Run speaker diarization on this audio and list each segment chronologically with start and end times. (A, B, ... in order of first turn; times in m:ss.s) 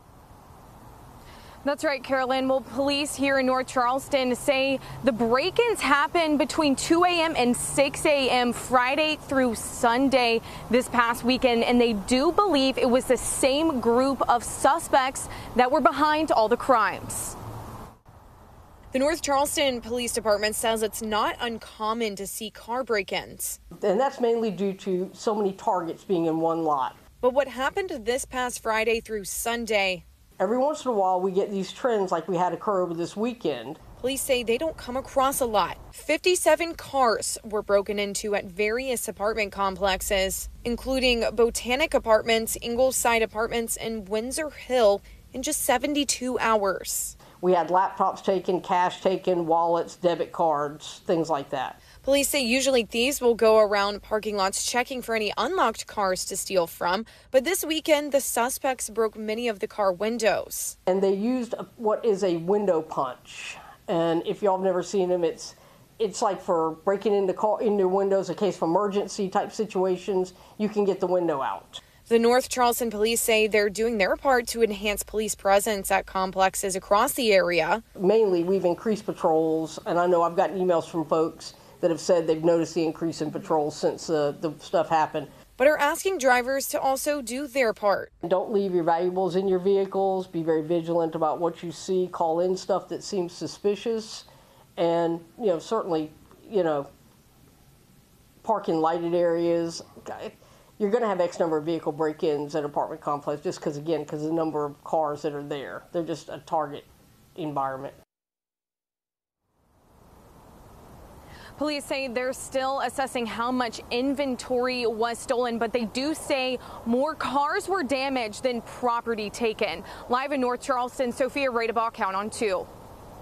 0:01.6-0:17.4 A
0:18.9-0:23.6 A
0:23.8-0:27.0 B
0:27.2-0:30.0 A
0:30.4-0:33.8 B
0:34.0-0:47.2 A
0:47.4-0:51.8 B
0:52.0-1:00.8 A
1:00.9-1:11.8 B
1:12.0-1:17.8 A
1:18.0-1:25.3 B
1:25.6-1:28.1 A
1:28.2-1:34.2 B
1:34.8-1:36.9 B
1:38.4-1:48.0 B
1:51.6-2:02.7 A